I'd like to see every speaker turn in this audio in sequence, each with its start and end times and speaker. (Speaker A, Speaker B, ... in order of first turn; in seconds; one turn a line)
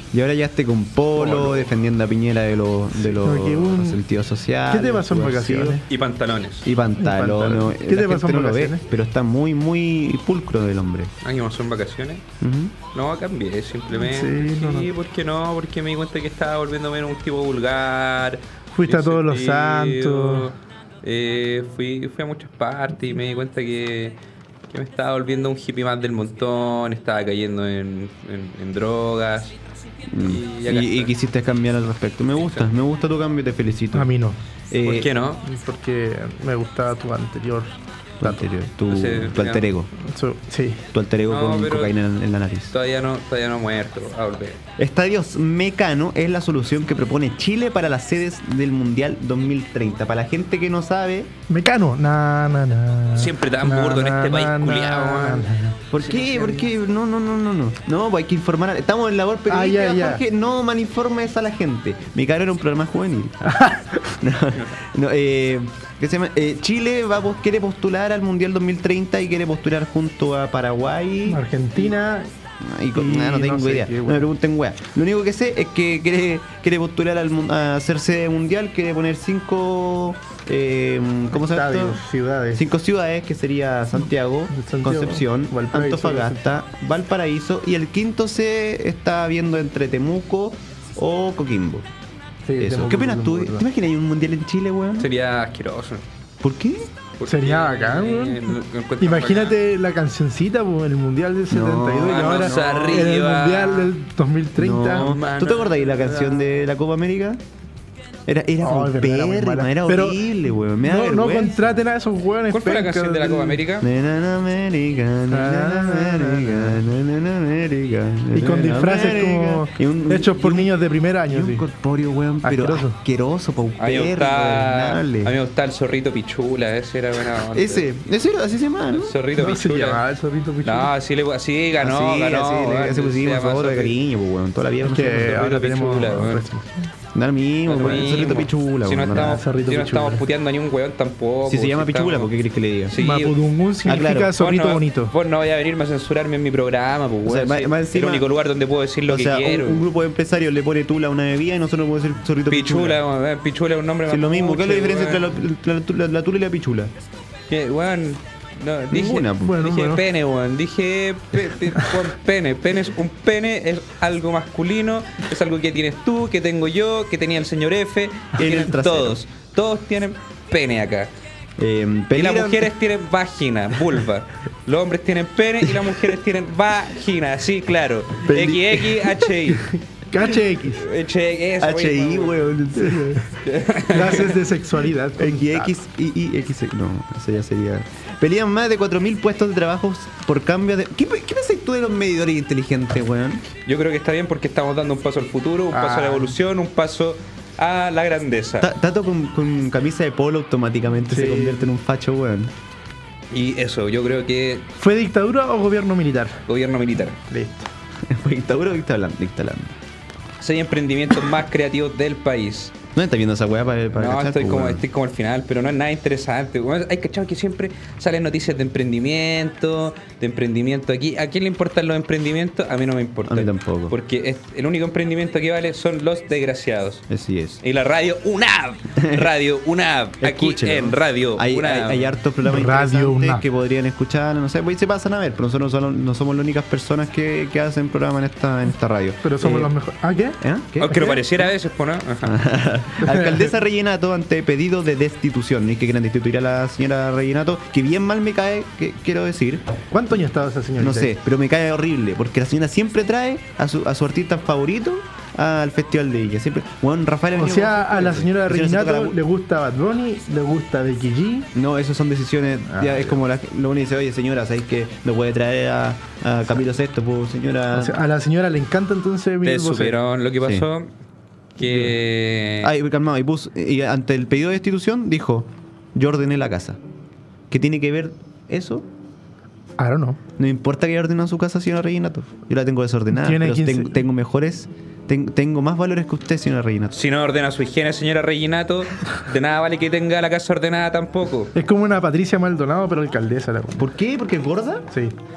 Speaker A: 0.1-5.8
Speaker B: 1.2-1.7
Speaker C: 3.0-4.0
Speaker C: 4.7-5.8
Speaker B: 5.9-6.7
Speaker A: 6.6-11.1
Speaker C: 7.0-8.8
Speaker B: 11.2-12.2
Speaker A: 12.4-12.7
Speaker B: 12.9-24.2
Speaker C: 13.9-14.9
Speaker C: 18.7-20.5
Speaker B: 24.7-29.6
Speaker A: 30.1-34.1
Speaker B: 30.2-31.1
Speaker C: 33.9-34.4
Speaker A: 34.7-35.1
Speaker B: 34.8-35.4
Speaker C: 35.4-38.5
Speaker A: 38.2-39.9
Speaker B: 38.9-39.7
Speaker C: 40.0-40.9
Speaker A: 40.9-42.7
Speaker B: 41.3-42.0
Speaker B: 42.7-44.6
Speaker A: 44.8-51.3
Speaker C: 51.5-55.8
Speaker B: 53.1-55.5
Speaker A: 55.9-63.5
Speaker B: 56.0-56.5
Speaker C: 59.5-60.2
Speaker C: 63.5-64.0
Speaker A: 64.2-71.9
Speaker C: 71.3-72.3
Speaker A: 72.6-82.0
Speaker C: 73.0-74.3
Speaker C: 81.4-82.7
Speaker A: 82.5-91.9
Speaker C: 84.5-86.4
Speaker C: 92.5-93.7
Speaker A: 92.6-95.1
Speaker B: 95.0-96.0
Speaker A: 96.4-96.9
Speaker B: 97.2-99.6
Speaker C: 97.3-105.1
Speaker A: 101.5-103.2
Speaker B: 102.0-103.9
Speaker A: 104.6-107.4
Speaker B: 104.9-106.5
Speaker A: 108.3-111.7
Speaker C: 108.6-110.2
Speaker C: 110.8-113.6
Speaker B: 112.5-113.9
Speaker A: 113.8-120.7
Speaker C: 115.3-116.8
Speaker C: 118.3-121.7
Speaker A: 121.3-125.3
Speaker C: 122.4-123.0
Speaker B: 123.8-127.9
Speaker A: 127.5-129.2
Speaker B: 128.9-130.0
Speaker C: 129.4-130.9
Speaker B: 130.6-133.9
Speaker A: 131.8-135.4
Speaker C: 134.8-136.9
Speaker B: 135.3-136.4
Speaker A: 137.1-139.4
Speaker B: 137.7-142.3
Speaker C: 139.2-140.2
Speaker A: 141.5-143.0
Speaker B: 142.9-143.3
Speaker C: 143.0-145.1
Speaker A: 143.8-144.4
Speaker B: 144.4-149.9
Speaker A: 147.2-148.3
Speaker A: 149.1-153.0
Speaker B: 152.5-155.4
Speaker A: 154.1-156.9
Speaker B: 157.5-171.1
Speaker A: 158.9-159.6
Speaker C: 159.4-160.0
Speaker A: 168.3-169.2
Speaker A: 171.6-172.7
Speaker B: 172.1-179.7
Speaker A: 175.6-176.1
Speaker A: 178.2-179.3
Speaker C: 180.1-180.8
Speaker B: 180.7-182.6
Speaker A: 181.6-183.3
Speaker C: 182.8-183.3
Speaker B: 183.3-184.4
Speaker C: 183.9-185.7
Speaker A: 185.2-193.4
Speaker B: 193.7-198.7
Speaker C: 195.7-196.3
Speaker A: 198.6-202.5
Speaker C: 201.1-201.7
Speaker B: 203.3-204.7
Speaker C: 204.8-206.4
Speaker B: 206.5-207.2
Speaker C: 207.3-207.7
Speaker A: 208.1-209.8
Speaker B: 210.4-212.8
Speaker A: 212.9-214.8
Speaker B: 213.9-227.1
Speaker A: 223.3-223.9
Speaker A: 227.1-227.6
Speaker B: 227.6-232.1
Speaker A: 229.0-229.3
Speaker A: 230.2-239.7
Speaker C: 232.4-233.4
Speaker C: 239.2-241.2
Speaker A: 240.4-241.5
Speaker B: 240.8-242.4
Speaker A: 242.2-249.7
Speaker C: 243.0-243.5
Speaker C: 249.9-251.1
Speaker A: 250.8-259.2
Speaker C: 257.4-261.5
Speaker A: 261.5-268.0
Speaker C: 262.7-263.1
Speaker C: 267.7-270.0
Speaker B: 269.4-270.9
Speaker B: 271.6-272.7
Speaker A: 272.6-276.8
Speaker A: 277.5-278.9
Speaker C: 279.8-280.2
Speaker A: 280.4-287.0
Speaker C: 283.1-284.0
Speaker B: 286.9-291.5
Speaker C: 291.6-293.9
Speaker A: 293.8-294.9
Speaker C: 294.9-295.2